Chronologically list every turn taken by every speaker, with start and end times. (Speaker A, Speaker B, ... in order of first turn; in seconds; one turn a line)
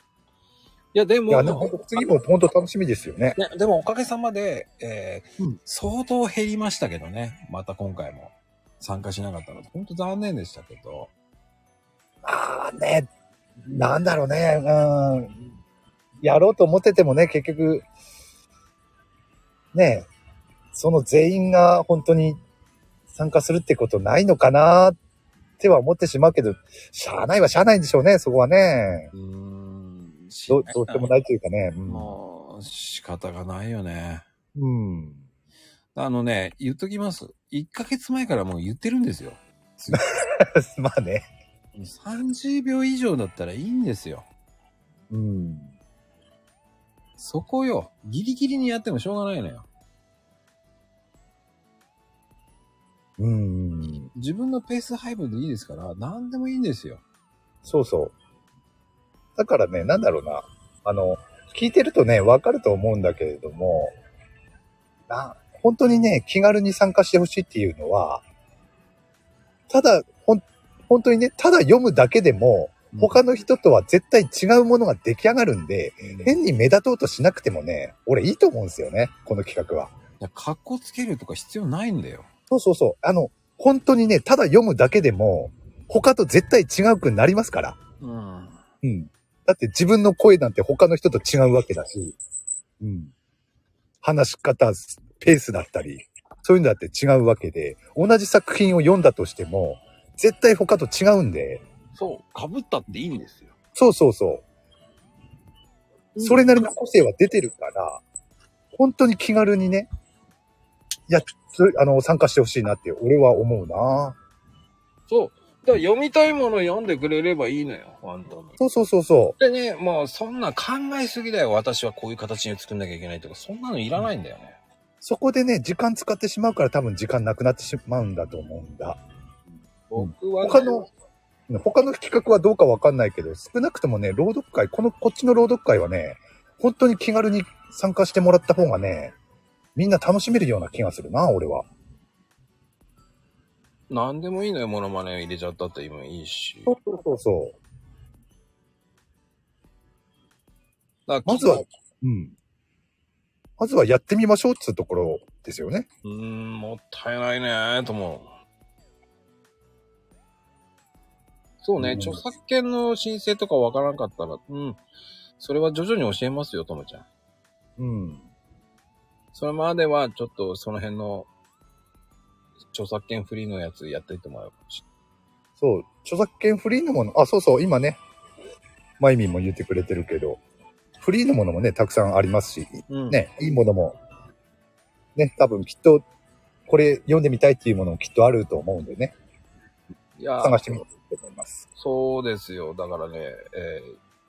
Speaker A: 0.9-2.0
Speaker B: 1.3-3.4
Speaker A: 3.4-11.1
Speaker B: 12.2-13.1
Speaker B: 13.6-15.4
Speaker B: 16.2-17.9
Speaker B: 19.7-20.1
Speaker B: 20.7-22.4
Speaker B: 23.1-25.0
Speaker B: 25.6-29.1
Speaker A: 29.1-31.1
Speaker B: 30.5-32.1
Speaker A: 31.9-34.3
Speaker B: 34.5-35.2
Speaker A: 36.0-40.1
Speaker B: 39.9-41.2
Speaker A: 41.8-44.3
Speaker B: 45.1-45.7
Speaker A: 47.2-49.7
Speaker B: 53.2-54.1
Speaker A: 54.1-57.0
Speaker B: 57.6-58.1
Speaker B: 59.4-63.9
Speaker B: 65.1-68.2
Speaker B: 69.7-79.9
Speaker A: 72.9-73.2
Speaker A: 76.0-76.3
Speaker A: 80.2-82.3
Speaker B: 82.5-87.8
Speaker A: 88.0-88.6
Speaker B: 88.8-92.2
Speaker B: 92.8-93.1
Speaker B: 94.0-101.6
Speaker A: 102.0-103.5
Speaker B: 103.8-104.5
Speaker A: 106.1-106.5
Speaker B: 106.2-108.0
Speaker B: 108.7-109.9
Speaker B: 111.1-114.2
Speaker A: 115.1-118.6
Speaker B: 118.6-119.4
Speaker A: 119.4-124.6
Speaker B: 125.0-129.0
Speaker A: 129.9-130.8
Speaker B: 130.0-130.9
Speaker B: 131.5-139.1
Speaker B: 139.8-141.7
Speaker A: 143.9-146.7
Speaker B: 146.7-147.6
Speaker A: 151.1-151.7
Speaker B: 151.3-152.3
Speaker B: 153.6-155.9
Speaker A: 156.1-158.3
Speaker A: 161.6-164.8
Speaker B: 161.8-162.2
Speaker A: 165.4-167.1
Speaker B: 167.8-168.3
Speaker A: 169.3-171.3
Speaker A: 172.7-174.8
Speaker B: 175.6-178.0
Speaker B: 179.0-180.4
Speaker B: 181.0-184.0
Speaker A: 182.9-183.2
Speaker B: 185.2-186.0
Speaker B: 186.7-189.1
Speaker A: 190.2-190.8
Speaker B: 190.4-191.6
Speaker A: 191.8-194.0